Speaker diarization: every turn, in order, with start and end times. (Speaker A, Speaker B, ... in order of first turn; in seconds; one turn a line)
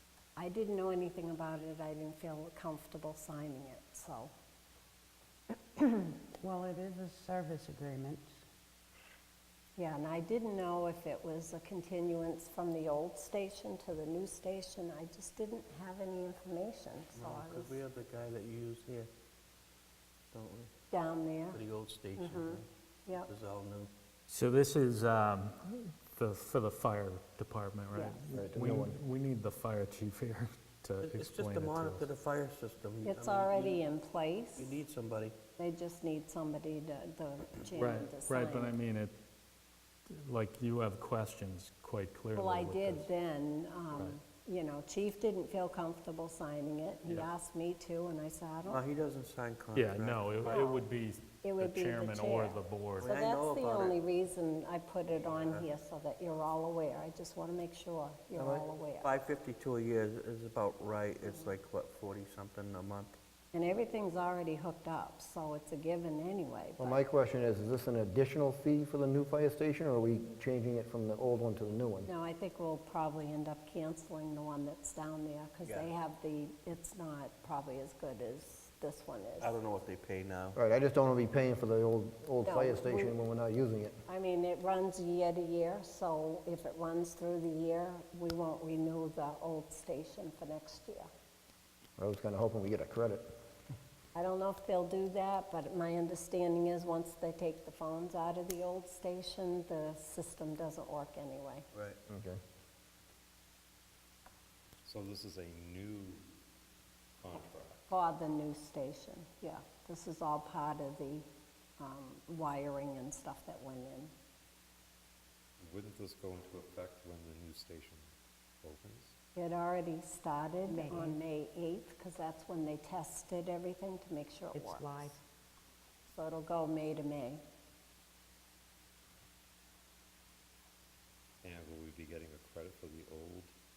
Speaker A: 0.4-4.3
Speaker B: 6.4-8.3
Speaker A: 9.8-17.8
Speaker C: 17.1-19.1
Speaker C: 20.3-20.7
Speaker A: 20.9-21.6
Speaker C: 21.5-23.9
Speaker A: 22.2-23.3
Speaker D: 24.3-32.1
Speaker E: 28.3-29.0
Speaker C: 31.0-33.8
Speaker A: 33.0-34.7
Speaker C: 34.5-35.4
Speaker A: 35.6-38.8
Speaker D: 37.8-39.2
Speaker D: 40.1-43.0
Speaker A: 42.3-48.8
Speaker C: 48.7-50.7
Speaker D: 49.7-53.1
Speaker A: 50.5-50.8
Speaker A: 51.4-59.1
Speaker C: 53.0-53.9
Speaker C: 55.1-55.7
Speaker E: 58.4-58.6
Speaker C: 59.0-63.2
Speaker A: 63.5-67.0
Speaker E: 66.8-72.1
Speaker A: 72.0-79.5
Speaker C: 75.6-75.9
Speaker C: 79.4-80.6
Speaker E: 80.5-84.0
Speaker A: 82.4-83.2
Speaker A: 84.0-91.1
Speaker E: 92.0-93.3
Speaker A: 94.1-101.7
Speaker C: 101.7-102.0
Speaker E: 102.1-102.4
Speaker F: 104.8-106.2
Speaker F: 107.2-107.9
Speaker A: 107.9-114.1
Speaker F: 115.6-119.1
Speaker A: 119.3-124.9
Speaker B: 120.7-121.2
Speaker B: 124.5-125.2
Speaker A: 126.1-127.4
Speaker F: 131.4-133.5